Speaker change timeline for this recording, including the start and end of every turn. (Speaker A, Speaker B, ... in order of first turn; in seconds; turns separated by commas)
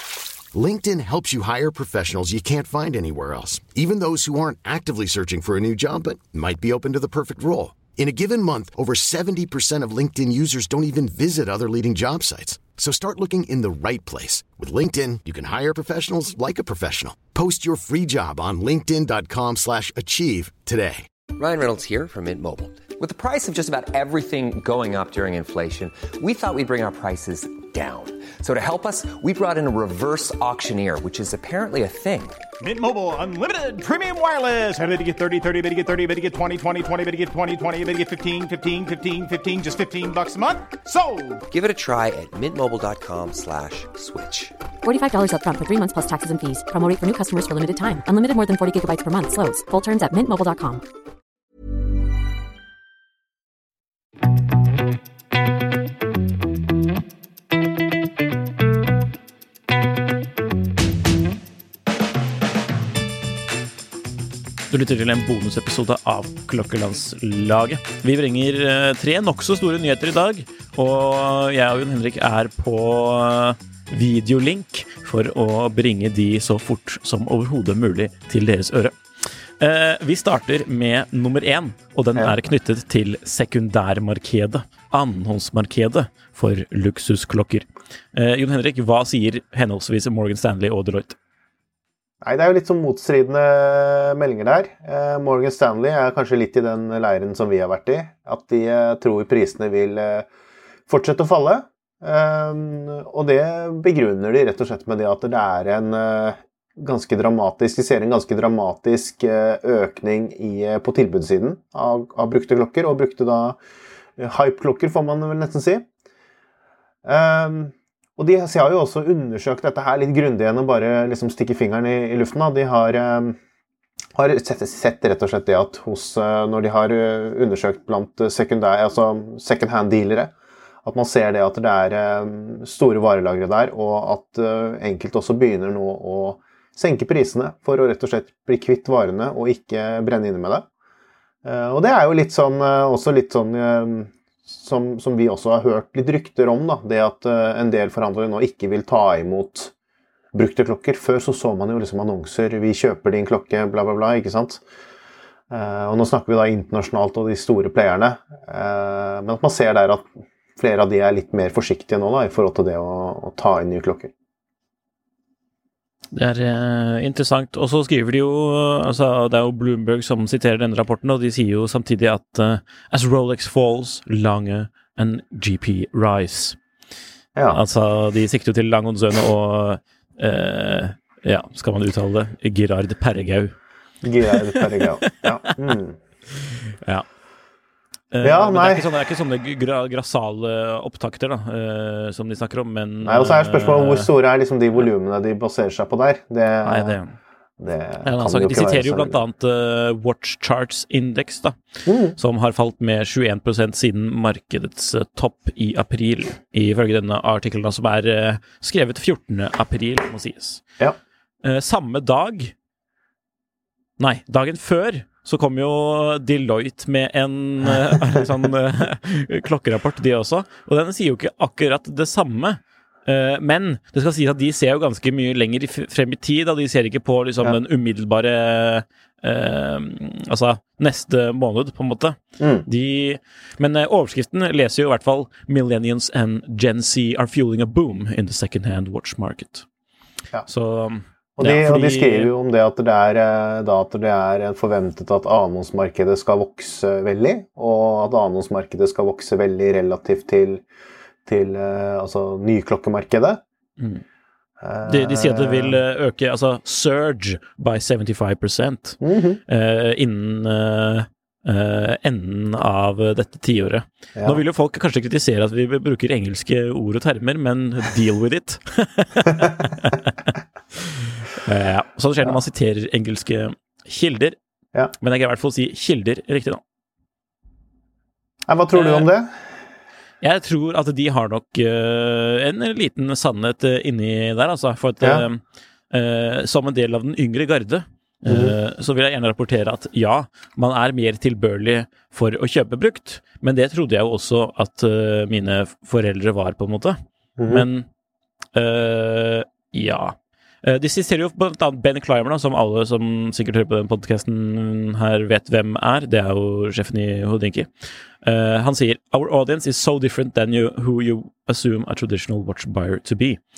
Speaker A: 0.5-21.1, Speaker B: 21.4-32.4, Speaker C: 32.6-41.4, Speaker B: 41.5-44.5, Speaker D: 44.8-50.8, Speaker E: 64.7-79.0, Speaker E: 79.6-91.2, Speaker F: 92.2-100.3, Speaker F: 100.9-113.6, Speaker F: 114.2-115.8, Speaker F: 117.0-123.4, Speaker F: 124.1-130.3, Speaker F: 130.8-140.7, Speaker F: 141.4-149.7, Speaker F: 150.3-154.6, Speaker F: 155.5-164.1, Speaker E: 166.1-176.6, Speaker F: 177.3-177.6, Speaker E: 177.5-183.5, Speaker F: 184.0-186.0, Speaker E: 184.3-185.4, Speaker E: 186.3-187.1, Speaker E: 188.1-194.1, Speaker F: 188.2-188.9, Speaker F: 193.0-197.0, Speaker E: 196.6-197.1, Speaker F: 197.6-199.2, Speaker E: 198.0-201.6, Speaker F: 201.8-202.2, Speaker E: 202.2-210.6, Speaker E: 211.4-212.5, Speaker E: 214.0-239.7, Speaker F: 232.4-232.7, Speaker E: 240.4-242.3, Speaker F: 241.4-250.6, Speaker F: 251.2-253.4, Speaker F: 254.6-255.8, Speaker E: 254.8-274.4, Speaker F: 259.0-259.4, Speaker F: 264.1-264.4, Speaker E: 275.0-276.6, Speaker F: 278.5-279.3, Speaker E: 278.7-279.1, Speaker E: 280.2-297.0, Speaker F: 285.0-285.2, Speaker F: 288.2-288.5, Speaker F: 297.4-297.6, Speaker E: 297.5-297.9, Speaker E: 298.5-307.7, Speaker E: 308.2-313.4